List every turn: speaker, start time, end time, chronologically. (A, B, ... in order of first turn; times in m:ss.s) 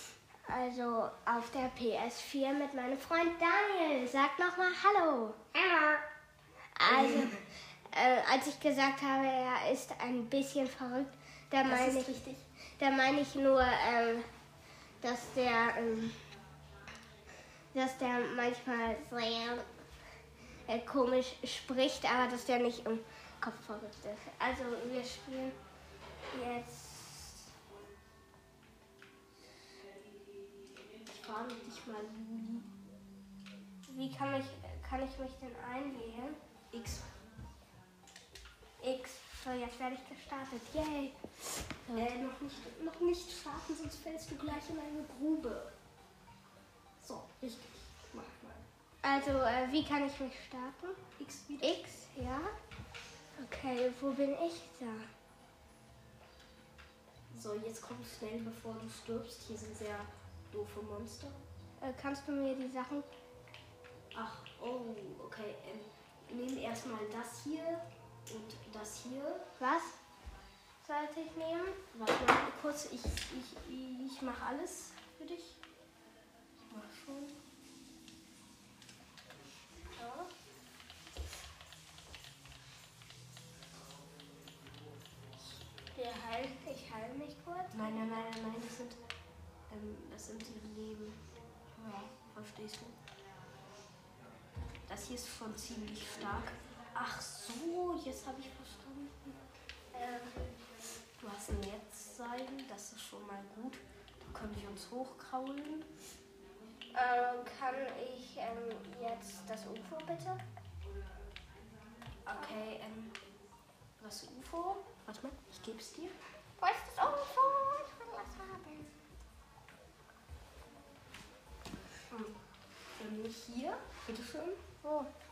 0:00.4-0:06.0 A
0:06.7-0:12.1 A
0:06.8-0:07.4 B
0:11.6-0:12.4 B
0:12.7-0:14.3 A
0:15.0-0:16.2 A
0:17.7-0:19.7 A
0:20.7-0:25.6 A
0:26.3-0:27.4 A
0:31.0-0:32.7 B
0:33.9-0:36.4 A
0:36.7-0:37.1 B
0:38.8-0:41.2 A
0:41.8-0:42.2 A
0:41.9-0:45.7 B
0:47.0-0:48.6 B
0:49.0-0:51.0 A
0:51.2-0:51.8 B
0:51.6-0:52.5 A
0:53.4-0:55.1 A
0:57.3-1:01.4 B
1:01.8-1:03.1 A
1:04.1-1:09.5 B
1:09.6-1:10.0 A
1:10.8-1:11.8 A
1:11.9-1:15.6 B
1:16.7-1:17.4 B
1:19.9-1:20.3 A
1:25.9-1:28.2 A
1:27.7-1:29.0 B
1:29.7-1:31.2 B
1:31.8-1:33.0 B
1:34.9-1:39.3 B
1:39.9-1:40.4 B
1:41.2-1:45.9 B
1:46.9-1:50.4 A
1:52.2-1:53.1 B
1:54.0-1:56.2 B
1:56.6-1:58.9 A
2:02.1-2:02.3 B
2:02.9-2:04.6 B
2:04.8-2:05.1 A